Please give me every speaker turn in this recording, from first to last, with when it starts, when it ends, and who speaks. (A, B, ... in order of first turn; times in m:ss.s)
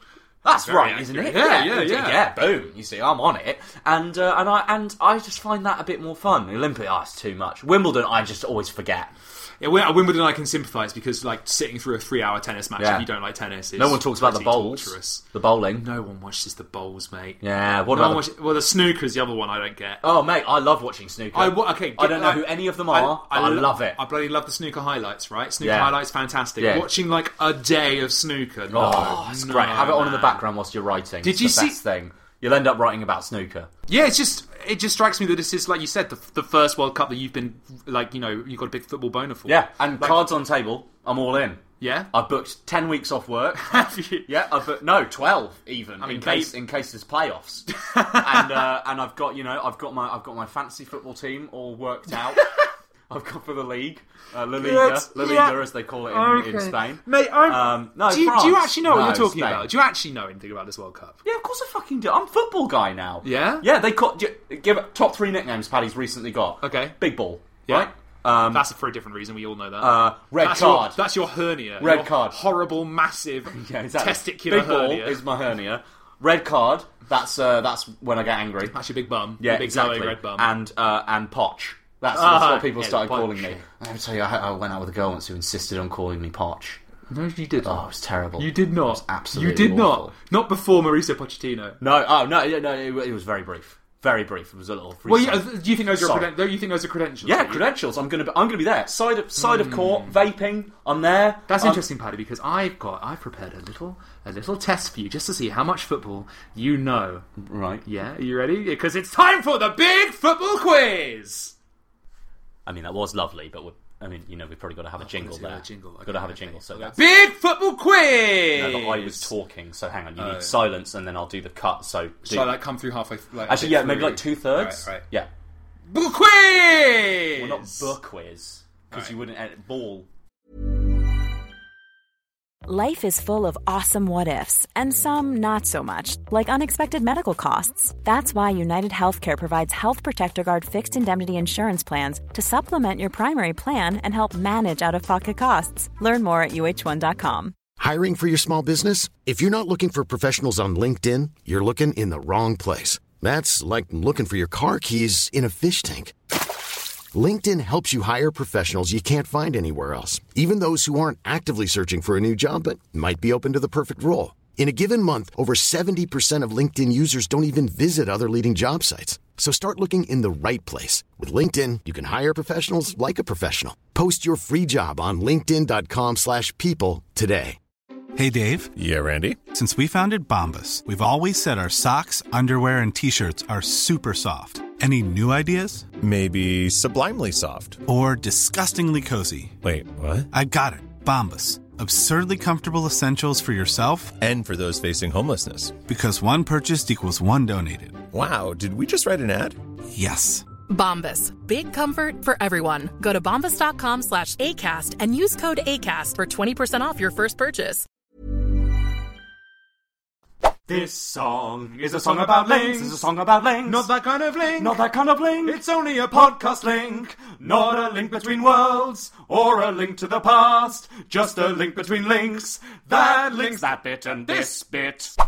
0:00.4-0:09.1 A
0:00.5-0:02.2 B
0:09.6-0:20.0 B
0:12.8-0:13.1 A
0:13.8-0:15.8 A
0:17.4-0:18.3 A
0:20.0-0:24.0 A
0:21.3-0:30.5 B
0:25.6-0:26.0 A
0:26.6-0:26.9 A
0:28.7-0:33.7 A
0:31.2-0:31.8 B
0:33.9-0:40.2 B
0:39.5-0:52.4 A
0:41.8-0:42.1 B
0:43.6-0:44.3 B
0:46.0-0:46.6 B
0:47.7-0:48.7 B
0:52.1-0:52.6 B
0:53.1-0:59.7 A
0:54.6-1:01.2 B
1:01.2-1:08.6 A
1:03.2-1:03.7 B
1:06.6-1:07.0 B
1:07.6-1:15.2 B
1:09.8-1:11.0 A
1:11.8-1:12.4 A
1:13.5-1:18.8 A
1:18.7-1:20.5 B
1:19.4-1:26.8 A
1:22.1-1:23.6 B
1:27.1-1:31.8 B
1:27.6-1:30.1 A
1:31.8-1:36.3 A
1:35.0-1:37.6 B
1:37.2-1:41.8 A
1:39.4-1:40.2 B
1:41.5-1:47.3 B
1:47.4-1:47.8 A
1:47.8-1:51.5 B
1:52.6-1:57.0 A
1:55.0-1:59.3 B
1:58.5-2:02.6 A
2:00.2-2:00.6 B
2:02.2-2:05.0 B
2:03.5-2:05.3 A
2:05.9-2:07.9 B
2:07.3-2:10.1 A
2:12.6-2:27.5 C
2:27.8-2:36.6 D
2:37.1-2:57.6 D
2:58.2-2:58.7 E
2:58.7-2:59.4 F
2:59.5-3:05.8 E
3:06.0-3:07.8 F
3:07.8-3:09.5 E
3:09.6-3:10.3 F
3:10.3-3:14.1 E
3:14.2-3:15.8 F
3:15.8-3:18.0 E
3:18.1-3:19.6 F
3:19.9-3:20.4 E
3:20.7-3:27.8 G
3:30.7-3:33.9 A
3:31.7-3:33.0 B
3:33.6-3:34.8 B
3:34.6-3:45.1 A
3:35.4-3:36.7 B
3:42.8-3:44.6 B